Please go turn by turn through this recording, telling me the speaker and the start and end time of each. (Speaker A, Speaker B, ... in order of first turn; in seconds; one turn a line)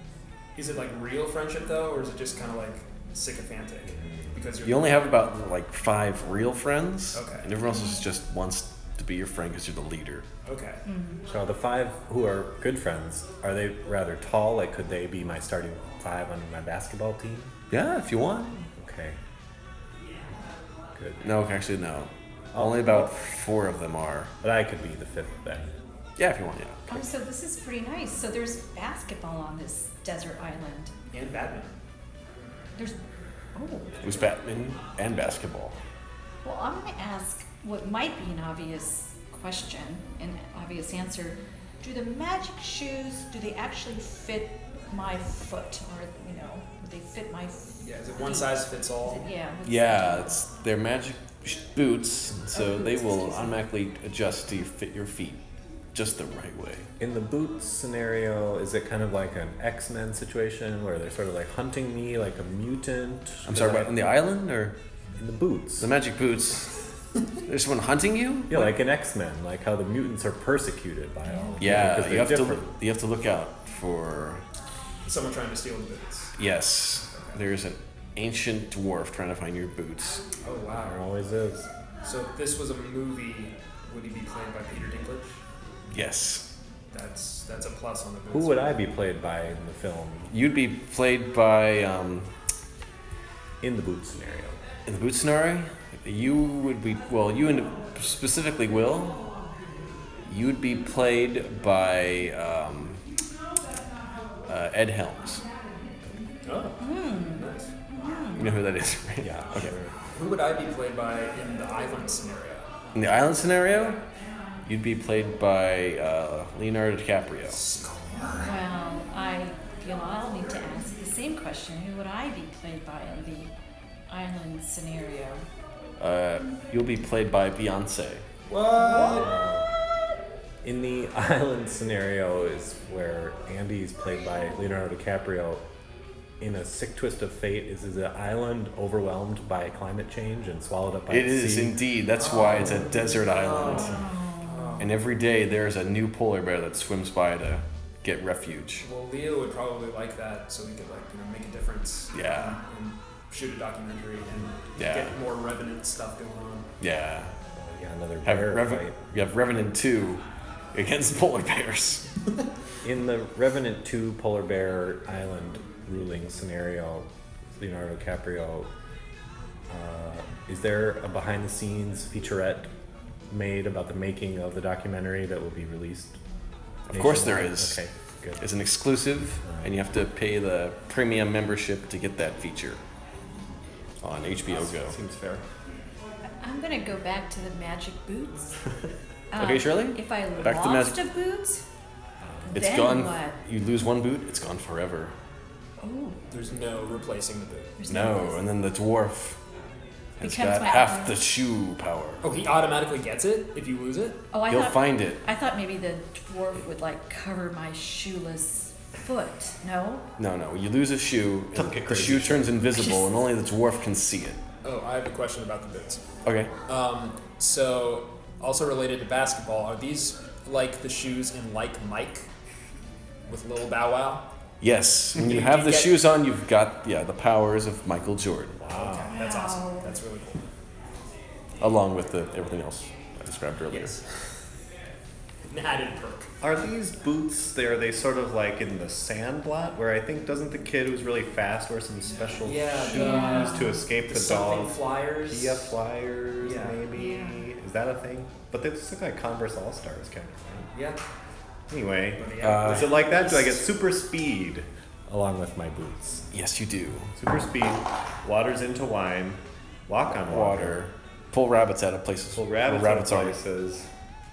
Speaker A: 0.6-5.1
Speaker B: 4.0-4.3
Speaker C: 4.6-10.2
Speaker A: 7.1-7.5
Speaker D: 7.7-8.0
Speaker A: 10.4-10.8
Speaker D: 10.9-11.2
Speaker B: 11.3-17.5
Speaker C: 17.7-18.6
Speaker B: 18.8-19.2
Speaker B: 21.0-21.2
Speaker C: 21.2-24.3
Speaker B: 22.5-23.1
Speaker B: 24.4-25.8
Speaker C: 26.2-27.0
Speaker D: 26.9-30.9
Speaker A: 31.1-31.8
Speaker D: 33.5-34.1
Speaker C: 34.0-35.8
Speaker D: 36.4-50.4
Speaker A: 47.8-49.3
Speaker C: 49.6-55.4
Speaker D: 52.5-53.6
Speaker C: 55.9-56.9
Speaker B: 57.0-64.0
Speaker C: 63.5-64.8
Speaker B: 65.2-65.9
Speaker C: 65.8-66.7
Speaker C: 67.5-68.7
Speaker B: 68.5-72.7
Speaker D: 71.3-71.5
Speaker C: 71.6-74.4
Speaker A: 75.1-76.3
Speaker C: 76.4-80.2
Speaker A: 80.4-81.0
Speaker B: 80.7-81.7
Speaker A: 82.0-85.4
Speaker C: 85.9-86.5
Speaker A: 86.9-88.8
Speaker B: 88.3-90.3
Speaker C: 90.3-92.3
Speaker B: 93.6-94.6
Speaker C: 94.9-99.3
Speaker C: 100.3-103.0
Speaker C: 104.5-105.4
Speaker A: 106.4-107.7
Speaker D: 106.8-108.4
Speaker C: 108.3-109.7
Speaker B: 109.2-109.9
Speaker A: 110.1-112.6
Speaker C: 113.0-114.0
Speaker C: 114.7-117.6
Speaker A: 117.5-118.5
Speaker D: 118.4-123.5
Speaker D: 124.1-125.5
Speaker C: 126.0-128.2
Speaker A: 128.5-129.3
Speaker D: 128.8-129.3
Speaker B: 129.2-129.7
Speaker B: 130.6-135.6
Speaker B: 136.4-141.8
Speaker C: 141.1-144.0
Speaker A: 142.3-144.9
Speaker D: 143.9-144.7
Speaker C: 144.8-148.9
Speaker A: 148.8-156.7
Speaker C: 152.1-152.6
Speaker C: 154.8-155.1
Speaker C: 156.8-157.3
Speaker B: 157.6-159.0
Speaker C: 158.2-160.2
Speaker C: 160.7-162.0
Speaker B: 162.8-168.7
Speaker B: 169.7-172.7
Speaker B: 173.3-176.2
Speaker C: 176.9-177.8
Speaker B: 176.9-178.4
Speaker C: 178.4-182.8
Speaker B: 179.4-179.8
Speaker C: 184.0-184.9
Speaker B: 184.5-185.4
Speaker D: 186.4-188.6
Speaker D: 189.3-191.6
Speaker C: 189.4-191.0
Speaker B: 192.2-192.5
Speaker D: 192.5-193.4
Speaker C: 192.5-195.1
Speaker D: 195.8-196.2
Speaker A: 196.3-197.7
Speaker D: 197.8-198.4
Speaker C: 197.9-199.4
Speaker C: 200.2-202.2
Speaker D: 200.2-201.2
Speaker A: 202.2-204.2
Speaker D: 204.3-210.1
Speaker C: 204.4-205.2
Speaker C: 210.2-214.4
Speaker B: 211.6-212.6
Speaker D: 212.8-213.0
Speaker A: 214.6-216.1
Speaker C: 216.2-216.5
Speaker A: 216.7-222.3
Speaker A: 223.3-224.2
Speaker C: 224.6-228.6
Speaker A: 225.2-226.0
Speaker B: 228.6-229.1
Speaker A: 228.8-230.4
Speaker D: 229.1-229.9
Speaker C: 231.6-233.9
Speaker A: 233.7-234.1
Speaker A: 235.5-236.3
Speaker B: 236.4-250.7
Speaker A: 242.4-245.7
Speaker D: 242.9-243.8
Speaker A: 246.4-246.8
Speaker D: 246.9-247.4
Speaker A: 250.7-251.0
Speaker B: 251.7-256.3
Speaker A: 252.2-253.6
Speaker C: 252.4-252.9
Speaker C: 256.3-257.1
Speaker B: 257.2-260.8
Speaker C: 260.2-263.4
Speaker B: 262.3-263.9